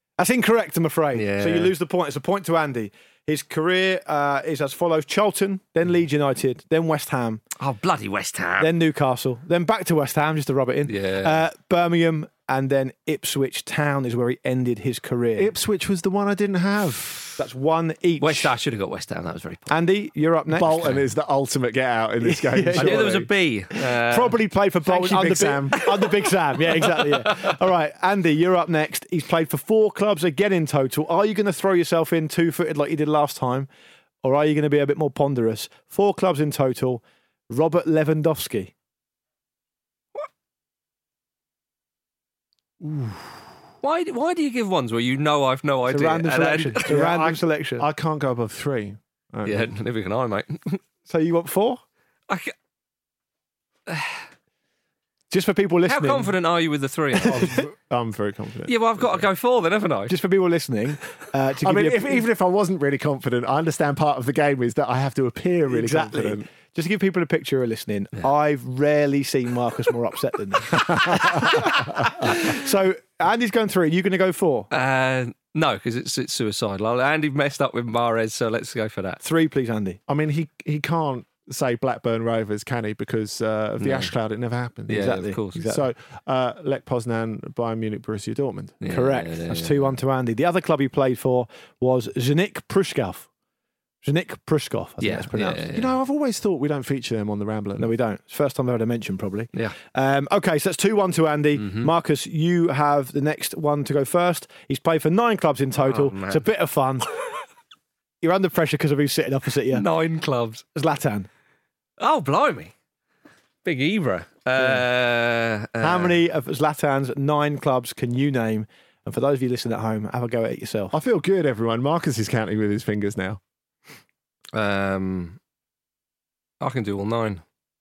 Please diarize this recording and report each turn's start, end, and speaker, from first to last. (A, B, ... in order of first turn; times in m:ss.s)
0:00.2-0:07.4 A
0:01.1-0:01.7 B
0:07.6-0:08.7 B
0:08.6-0:15.5 A
0:10.9-0:11.4 B
0:15.4-0:17.2 C
0:17.4-0:18.5 A
0:18.2-0:19.7 B
0:19.7-0:20.8 A
0:20.5-0:23.3 C
0:22.2-0:23.2 A
0:22.8-0:24.4 B
0:23.8-0:33.7 A
0:24.8-0:25.9 C
0:26.8-0:27.6 B
0:34.2-0:38.7 A
0:42.8-0:43.2 C
0:43.8-0:46.9 B
0:45.9-0:47.8 A
0:46.9-0:49.7 C
0:49.4-0:50.8 B
0:51.1-0:51.8 A
0:52.3-0:52.5 B
0:53.9-0:54.2 B
0:55.3-0:56.3 A
0:55.8-0:57.6 B
0:57.2-0:59.2 C
0:57.2-0:57.6 A
0:58.7-1:00.2 B
1:00.1-1:02.2 A
1:01.6-1:06.4 C
1:05.7-1:14.7 A
1:10.7-1:12.2 C
1:14.7-1:19.2 B
1:19.2-1:20.0 A
1:20.1-1:28.8 C
1:23.8-1:24.1 B
1:24.9-1:25.6 B
1:24.9-1:25.8 A
1:28.8-1:30.0 B
1:28.9-1:33.3 A
1:34.0-1:35.6 A
1:35.0-1:35.9 B
1:35.7-1:37.9 C
1:37.8-1:47.1 A
1:41.6-1:41.9 B
1:45.8-1:46.4 B
1:48.2-1:49.8 A
1:49.7-1:50.6 B
1:50.8-1:51.3 A
1:52.0-1:52.7 B
1:53.6-1:56.2 B
1:55.8-2:00.9 A
2:00.9-2:03.4 C
2:04.5-2:05.4 B
2:06.6-2:07.4 B